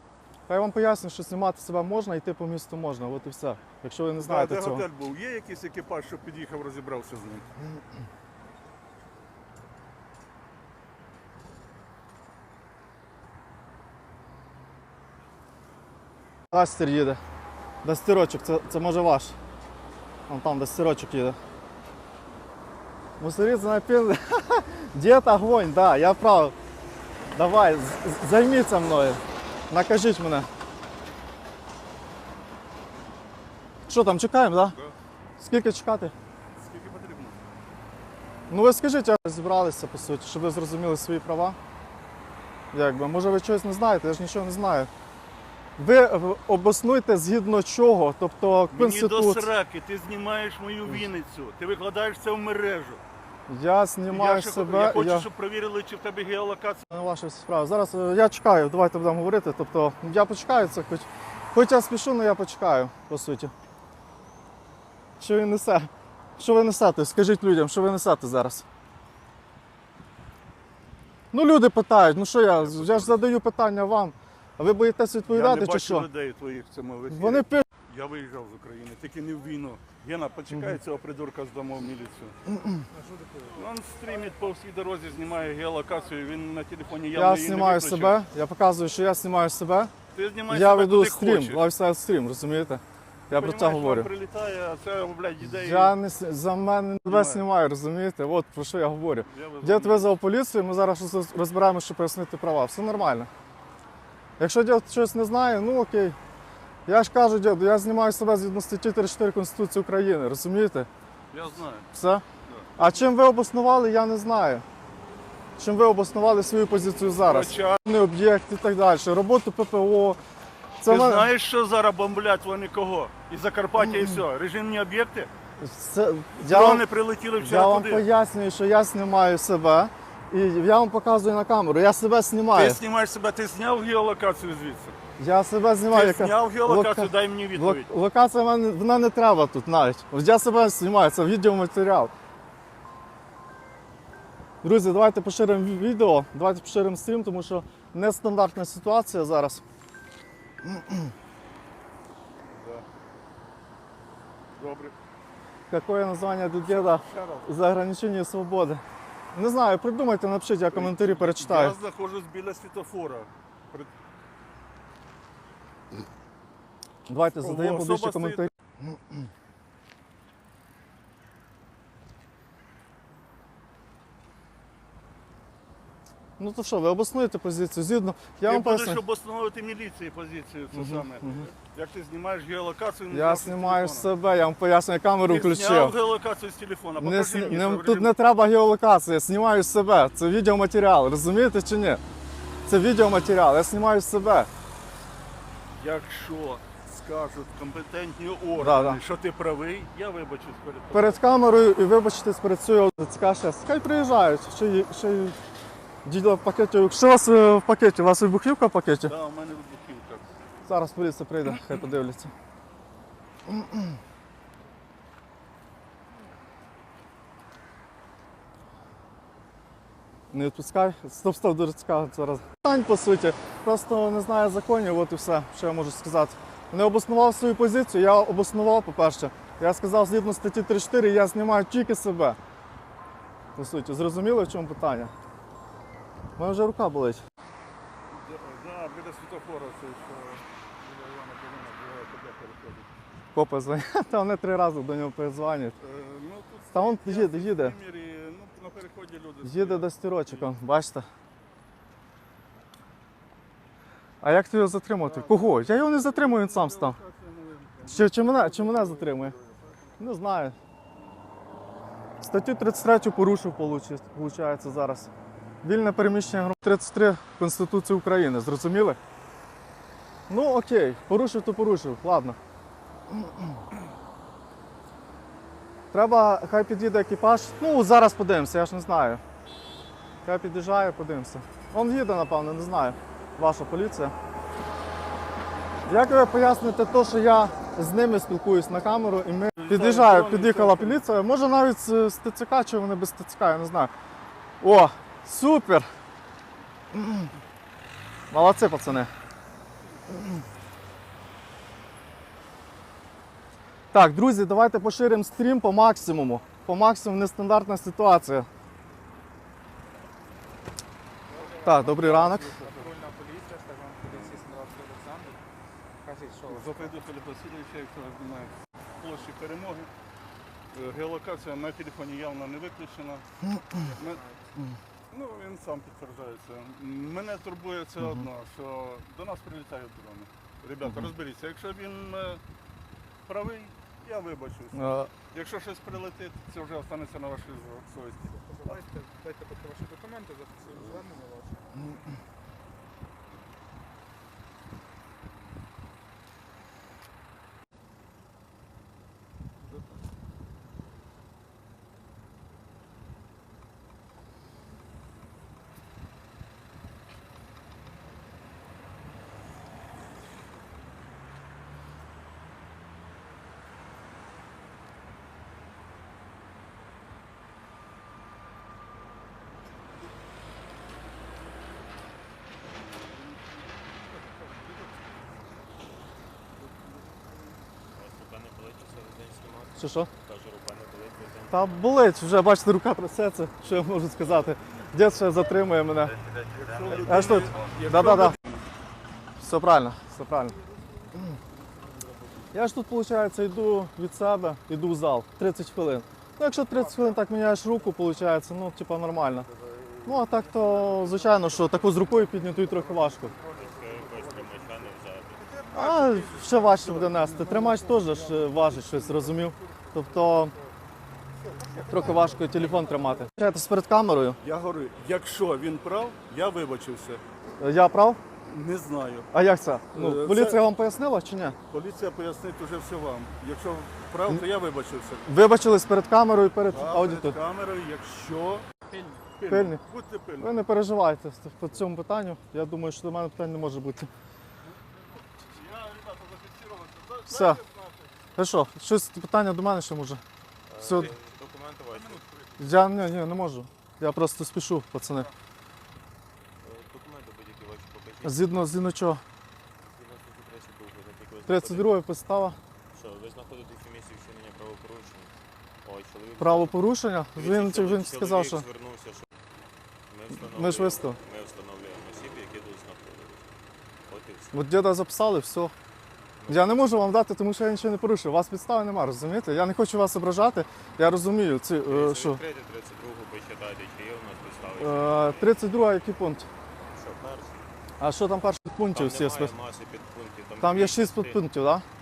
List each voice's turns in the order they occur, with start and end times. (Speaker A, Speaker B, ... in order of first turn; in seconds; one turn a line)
Speaker A: 0.5-4.8
Speaker B: 4.2-7.5
Speaker A: 16.5-17.2
Speaker A: 17.8-19.3
Speaker A: 20.3-21.4
Speaker A: 23.2-26.5
Speaker A: 27.3-30.5
Speaker A: 33.9-34.8
Speaker A: 35.4-36.1
Speaker B: 36.6-37.4
Speaker A: 38.5-41.6
Speaker A: 42.7-44.9
Speaker A: 45.8-49.5
Speaker B: 48.7-53.0
Speaker A: 53.5-55.3
Speaker B: 54.1-56.8
Speaker A: 56.9-63.5
Speaker A: 65.2-68.6
Speaker A: 71.3-76.1
Speaker B: 72.6-73.2
Speaker B: 75.3-82.3
Speaker A: 77.1-77.6
Speaker A: 82.5-82.8
Speaker C: 82.9-83.6
Speaker B: 83.5-88.2
Speaker A: 87.1-89.9
Speaker B: 90.1-91.6
Speaker A: 90.5-94.1
Speaker B: 93.3-96.0
Speaker A: 95.5-103.3
Speaker B: 97.0-97.4
Speaker B: 99.2-100.1
Speaker A: 104.4-106.2
Speaker A: 106.8-110.9
Speaker B: 111.3-111.9
Speaker A: 111.9-112.2
Speaker B: 112.5-112.7
Speaker A: 112.8-114.6
Speaker A: 115.6-120.2
Speaker B: 117.2-117.8
Speaker A: 120.8-121.3
Speaker B: 120.8-125.3
Speaker A: 123.8-124.2
Speaker A: 125.6-126.8
Speaker B: 126.4-128.0
Speaker A: 127.4-132.8
Speaker B: 132.5-135.0
Speaker A: 135.2-142.1
Speaker B: 135.9-137.9
Speaker A: 144.6-149.6
Speaker A: 150.6-151.1
Speaker B: 152.5-152.8
Speaker B: 154.5-154.9
Speaker A: 155.7-158.8
Speaker B: 156.7-157.5
Speaker A: 159.3-161.8
Speaker B: 160.7-163.9
Speaker A: 167.1-169.2
Speaker B: 167.4-168.4
Speaker A: 176.4-179.0
Speaker B: 178.4-184.1
Speaker A: 180.7-181.5
Speaker A: 183.1-185.9
Speaker B: 185.2-188.1
Speaker A: 187.0-192.0
Speaker A: 192.7-194.5
Speaker B: 195.7-201.2
Speaker A: 198.6-199.0
Speaker A: 200.9-205.3
Speaker A: 206.0-209.1
Speaker B: 209.0-210.3
Speaker A: 210.7-212.3
Speaker A: 213.5-214.0
Speaker A: 220.3-232.4
Speaker A: 233.6-235.1
Speaker A: 236.4-237.2
Speaker B: 238.1-242.9
Speaker A: 243.3-245.8
Speaker B: 245.8-250.5
Speaker A: 246.7-247.7
Speaker A: 249.4-251.1
Speaker A: 254.2-257.0
Speaker B: 255.0-259.9
Speaker A: 257.9-259.3
Speaker A: 260.0-260.6
Speaker A: 262.2-265.1
Speaker A: 265.6-269.0
Speaker A: 270.3-272.4
Speaker A: 273.1-273.6
Speaker A: 275.9-279.2
Speaker A: 280.2-284.1
Speaker A: 285.9-293.9
Speaker B: 289.6-291.0
Speaker A: 294.6-295.9
Speaker A: 296.9-297.3
Speaker A: 298.3-299.1
Speaker A: 303.9-308.5
Speaker C: 311.3-315.4
Speaker B: 311.3-312.9
Speaker A: 311.6-312.5
Speaker B: 314.1-314.4
Speaker C: 316.0-316.9
Speaker B: 316.5-319.9
Speaker B: 320.7-323.2
Speaker C: 323.7-324.5
Speaker B: 324.0-324.2
Speaker B: 325.1-332.4
Speaker A: 328.0-328.3
Speaker B: 333.3-338.8
Speaker A: 334.7-335.1
Speaker C: 338.3-341.8
Speaker C: 349.7-349.9
Speaker B: 372.9-373.6
Speaker B: 376.6-377.4
Speaker D: 377.9-382.0
Speaker A: 379.8-380.1
Speaker A: 381.5-386.1
Speaker D: 386.0-387.8
Speaker B: 386.5-388.6
Speaker A: 386.9-388.4
Speaker A: 389.4-390.6
Speaker A: 392.5-399.5
Speaker B: 399.6-409.8
Speaker A: 400.0-403.3
Speaker D: 403.5-405.5
Speaker A: 405.7-410.5
Speaker C: 411.6-412.8
Speaker B: 411.7-412.5
Speaker A: 411.9-414.4
Speaker B: 414.4-417.2
Speaker A: 417.6-418.2
Speaker B: 418.5-419.3
Speaker A: 419.3-421.6
Speaker B: 419.9-420.6
Speaker B: 421.7-425.3
Speaker A: 425.2-427.4
Speaker B: 426.7-428.6
Speaker C: 428.9-429.3
Speaker B: 429.4-430.6
Speaker A: 429.5-429.8
Speaker A: 430.4-434.1
Speaker B: 435.5-438.2
Speaker A: 437.3-437.6
Speaker A: 438.4-440.2
Speaker D: 440.7-442.2
Speaker A: 440.8-441.1
Speaker B: 441.9-442.6
Speaker A: 442.6-445.3
Speaker D: 446.6-448.7
Speaker A: 448.2-449.2
Speaker D: 449.8-452.0
Speaker A: 451.4-452.6
Speaker D: 452.9-456.8
Speaker A: 456.4-458.6
Speaker D: 457.3-459.2
Speaker D: 460.1-463.5
Speaker A: 460.3-461.2
Speaker D: 464.1-464.6
Speaker A: 464.5-465.7
Speaker D: 466.4-466.9
Speaker A: 466.5-472.4
Speaker D: 471.9-475.5
Speaker A: 474.8-476.5
Speaker D: 476.9-477.7
Speaker A: 478.0-479.5
Speaker D: 478.9-481.4
Speaker A: 480.6-481.8